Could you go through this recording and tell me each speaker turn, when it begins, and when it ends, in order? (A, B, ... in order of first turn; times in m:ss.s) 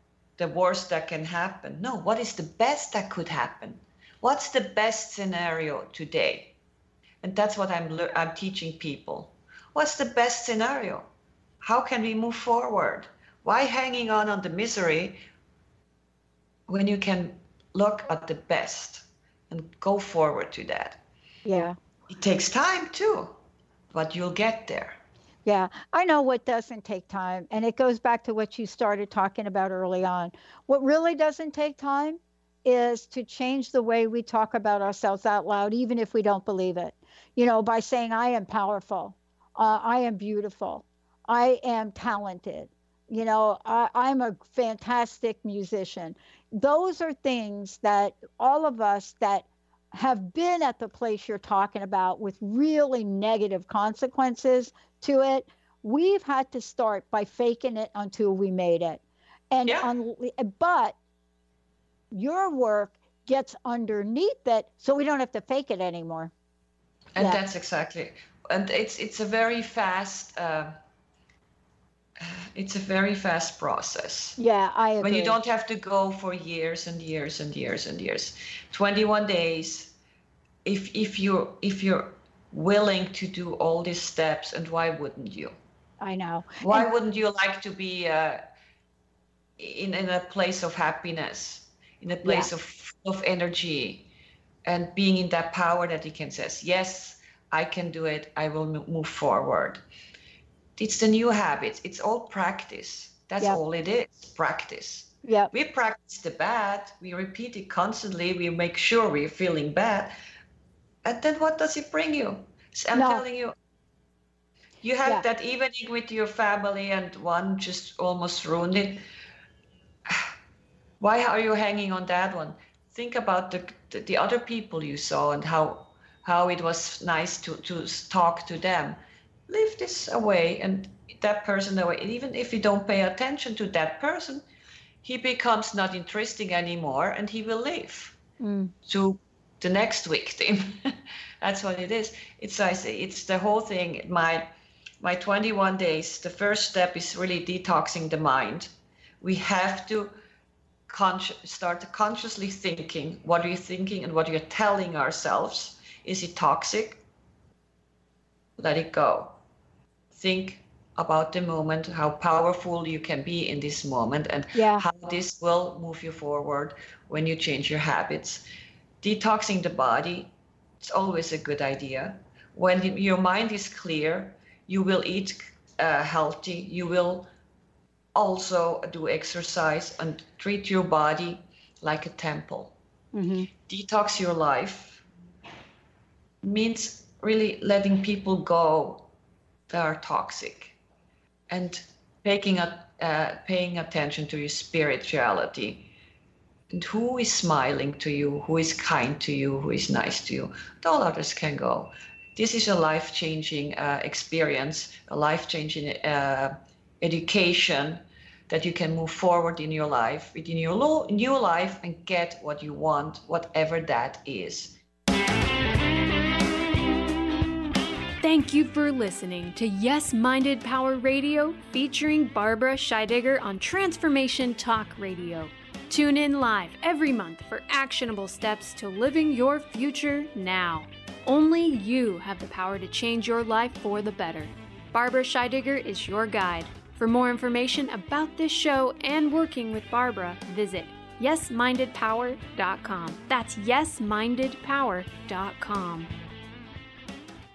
0:00.4-0:06.5 A
0:07.2-0:11.0 A
0:11.6-0:15.2 A
0:16.7-0:21.0 A
0:21.4-0:21.8 B
0:22.1-0:23.3 A
0:23.9-0:25.0 A
0:25.4-1:00.9 B
1:02.1-1:06.3 B
1:07.1-1:10.7 A
1:12.2-1:14.4 A
1:14.4-1:15.3 B
1:15.0-1:19.9 A
1:20.6-1:25.5 A
1:26.0-1:26.9 B
1:26.6-1:28.4 A
1:29.6-1:34.1 A
1:32.2-1:32.5 B
1:34.6-1:39.8 A
1:40.8-1:50.1 A
1:45.2-1:45.5 B
1:51.0-1:53.5 A
1:52.9-1:53.2 B
1:54.8-1:59.0 A
2:00.1-2:00.3 A
2:01.0-2:09.0 A
2:09.5-2:14.4 A
2:15.0-2:18.2 A
2:18.4-2:18.7 B
2:18.8-2:24.5 A
2:25.0-2:28.7 A
2:29.2-2:30.1 A
2:30.9-2:37.0 A
2:38.6-2:39.4 A
2:40.1-2:48.4 A
2:44.5-2:44.8 B
2:49.0-2:50.3 A
2:50.8-2:57.3 A
2:58.1-3:02.7 A
3:03.1-3:03.5 B
3:03.7-3:05.0 A
3:06.4-3:09.1 A
3:09.7-3:10.7 A
3:11.5-3:15.9 A
3:16.7-3:34.8 A
3:38.2-4:06.1 C